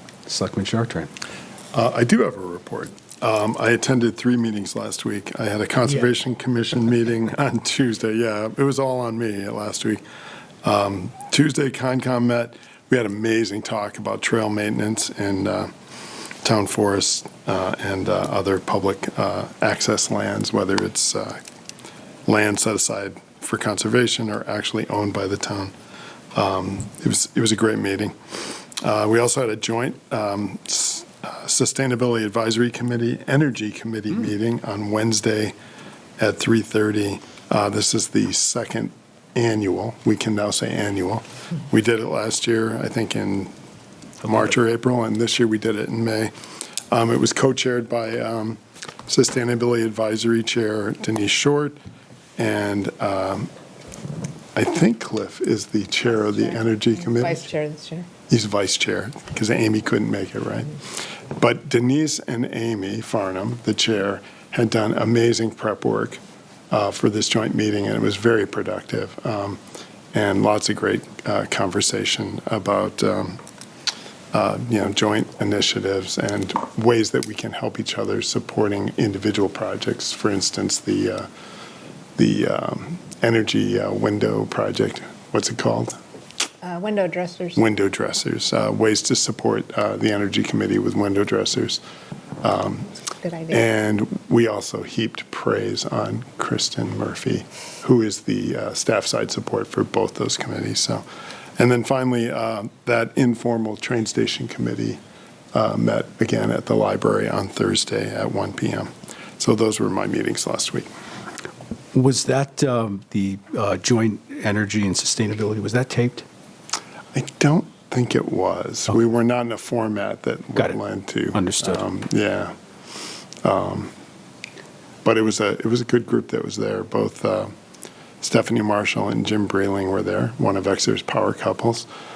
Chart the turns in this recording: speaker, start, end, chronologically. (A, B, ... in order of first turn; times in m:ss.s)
0:00.3-0:01.1 A
0:01.7-0:10.0 B
0:10.6-0:15.7 B
0:16.4-0:21.4 B
0:22.3-0:25.7 B
0:26.3-0:35.5 B
0:36.2-0:43.5 B
0:44.2-0:46.3 B
0:46.9-0:51.8 B
0:52.4-0:53.5 B
0:54.6-0:57.5 B
0:56.5-0:58.1 C
0:58.3-1:00.8 B
1:01.3-1:09.6 B
1:10.1-1:13.4 B
1:14.3-1:21.3 B
1:22.2-1:26.0 B
1:26.6-1:27.6 C
1:27.6-1:31.8 B
1:32.4-1:32.9 B
1:33.2-1:33.7 C
1:33.5-1:41.0 B
1:41.6-1:45.0 B
1:45.5-1:50.9 B
1:51.9-1:56.2 A
1:57.1-2:02.5 B
2:01.3-2:01.8 A
2:03.4-2:03.9 B
2:05.0-2:07.5 B
2:08.2-2:11.9 B